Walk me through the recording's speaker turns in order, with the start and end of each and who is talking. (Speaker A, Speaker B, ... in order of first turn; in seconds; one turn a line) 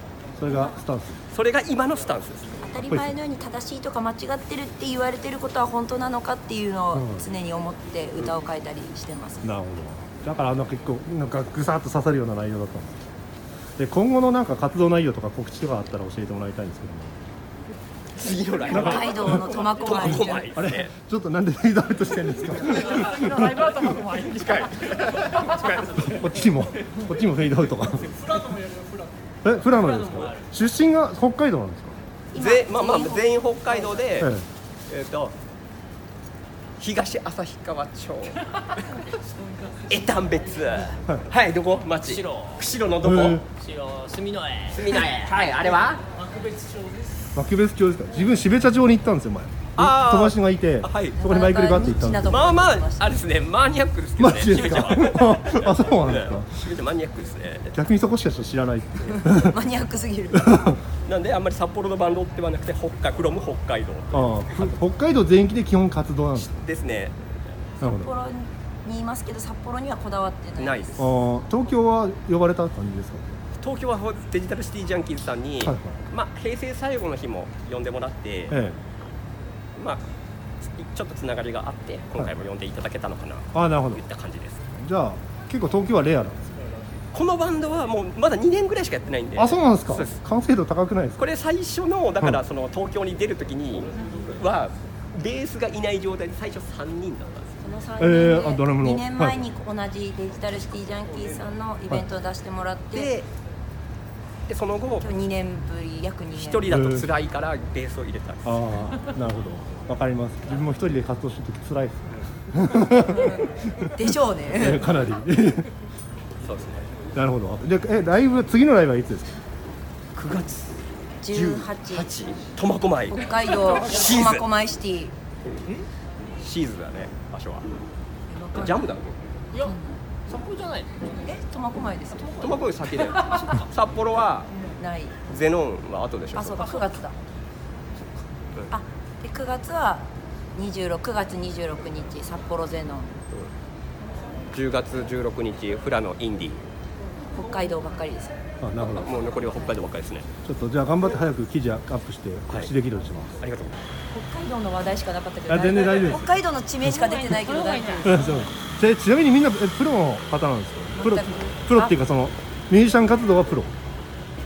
Speaker A: 0.4-1.2
Speaker B: 0.5-0.8
Speaker C: 1.3-2.6
Speaker B: 2.6-9.5
Speaker A: 2.9-3.2
Speaker A: 6.9-7.3
Speaker A: 9.4-13.1
Speaker A: 13.8-17.2
Speaker C: 18.2-20.9
Speaker B: 18.7-20.5
Speaker A: 18.7-23.7
Speaker D: 22.9-24.8
Speaker C: 24.1-26.2
Speaker A: 26.1-28.2
Speaker E: 28.1-29.1
Speaker A: 29.4-32.0
Speaker B: 32.3-34.0
Speaker C: 32.4-34.3
Speaker A: 34.2-34.5
Speaker C: 34.9-35.4
Speaker C: 36.8-38.8
Speaker C: 39.9-43.5
Speaker E: 42.1-42.5
Speaker A: 43.0-43.5
Speaker E: 43.6-44.7
Speaker C: 44.7-46.0
Speaker E: 46.4-46.9
Speaker A: 47.4-52.3
Speaker C: 49.8-51.2
Speaker B: 51.2-53.1
Speaker C: 52.3-57.8
Speaker A: 54.2-56.6
Speaker A: 57.8-59.6
Speaker B: 59.1-60.8
Speaker A: 60.4-60.8
Speaker C: 61.1-64.8
Speaker A: 64.1-66.6
Speaker C: 66.3-67.2
Speaker A: 67.8-68.1
Speaker B: 67.8-70.9
Speaker C: 70.6-71.1
Speaker A: 71.0-73.4
Speaker C: 73.6-78.6
Speaker A: 75.6-76.0
Speaker A: 78.5-78.8
Speaker C: 79.8-80.0
Speaker C: 80.8-84.7
Speaker A: 83.5-84.0
Speaker A: 84.8-86.6
Speaker C: 87.1-90.2
Speaker A: 89.3-91.2
Speaker C: 91.2-97.6
Speaker B: 97.6-103.2
Speaker A: 98.0-99.5
Speaker C: 102.9-103.3
Speaker C: 104.5-105.1
Speaker B: 105.0-106.7
Speaker C: 106.3-108.6
Speaker A: 106.7-107.1
Speaker A: 108.5-113.9
Speaker B: 112.8-114.8
Speaker A: 114.5-115.7
Speaker C: 116.5-116.9
Speaker A: 117.2-119.3
Speaker C: 120.1-124.5
Speaker B: 121.2-122.1
Speaker B: 123.1-125.1
Speaker C: 126.4-127.7
Speaker B: 128.3-128.9
Speaker C: 128.5-129.2
Speaker B: 129.5-130.0
Speaker E: 130.3-130.9
Speaker B: 131.0-133.6
Speaker C: 132.4-134.5
Speaker B: 134.8-135.2
Speaker C: 135.3-136.8
Speaker B: 136.3-137.2
Speaker B: 138.7-143.2
Speaker C: 144.5-146.6
Speaker B: 147.3-148.3
Speaker A: 148.6-149.1
Speaker C: 148.8-150.3
Speaker B: 149.3-149.8
Speaker A: 150.4-153.4
Speaker C: 153.4-153.8
Speaker B: 154.1-158.5
Speaker A: 155.5-156.4
Speaker D: 157.7-158.0
Speaker A: 158.0-163.8
Speaker B: 161.0-162.0